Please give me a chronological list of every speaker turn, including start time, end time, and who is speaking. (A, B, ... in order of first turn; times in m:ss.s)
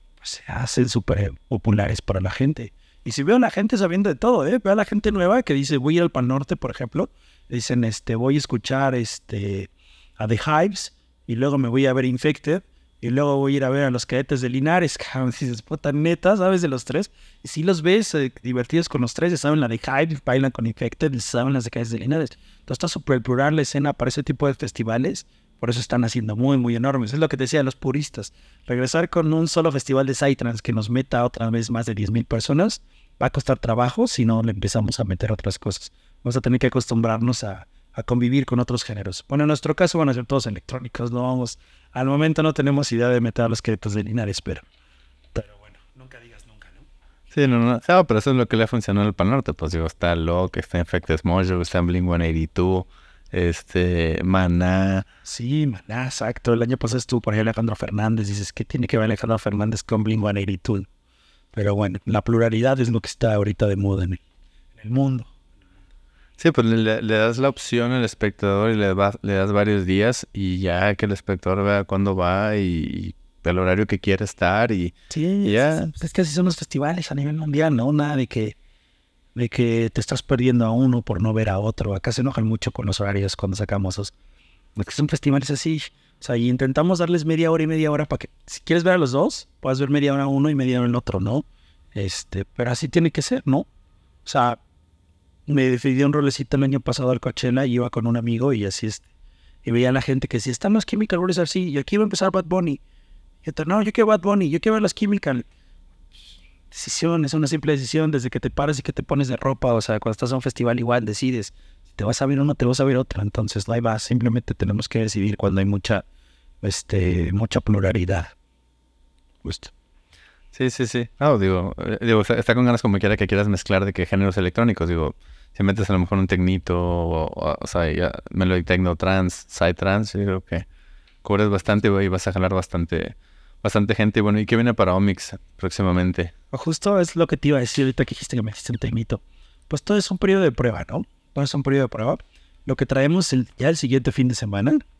0:00.2-0:44.6 A
0:45.3-0:46.8 A
0:47.3-0:55.0 B
0:55.2-1:00.9 A
1:01.5-1:04.2 A
1:04.8-1:05.3 A
1:06.4-1:15.9 B
1:15.1-1:18.5 A
1:19.3-1:24.1 A
1:24.8-1:33.7 A
1:34.2-1:34.6 A
1:35.5-1:39.1 A
1:39.6-1:42.8 A
1:43.4-1:45.4 A
1:46.7-1:56.0 A
1:56.6-1:58.3 A
1:59.4-1:59.7 A
2:00.5-2:10.6 B
2:11.2-2:16.3 B
2:16.5-2:24.8 A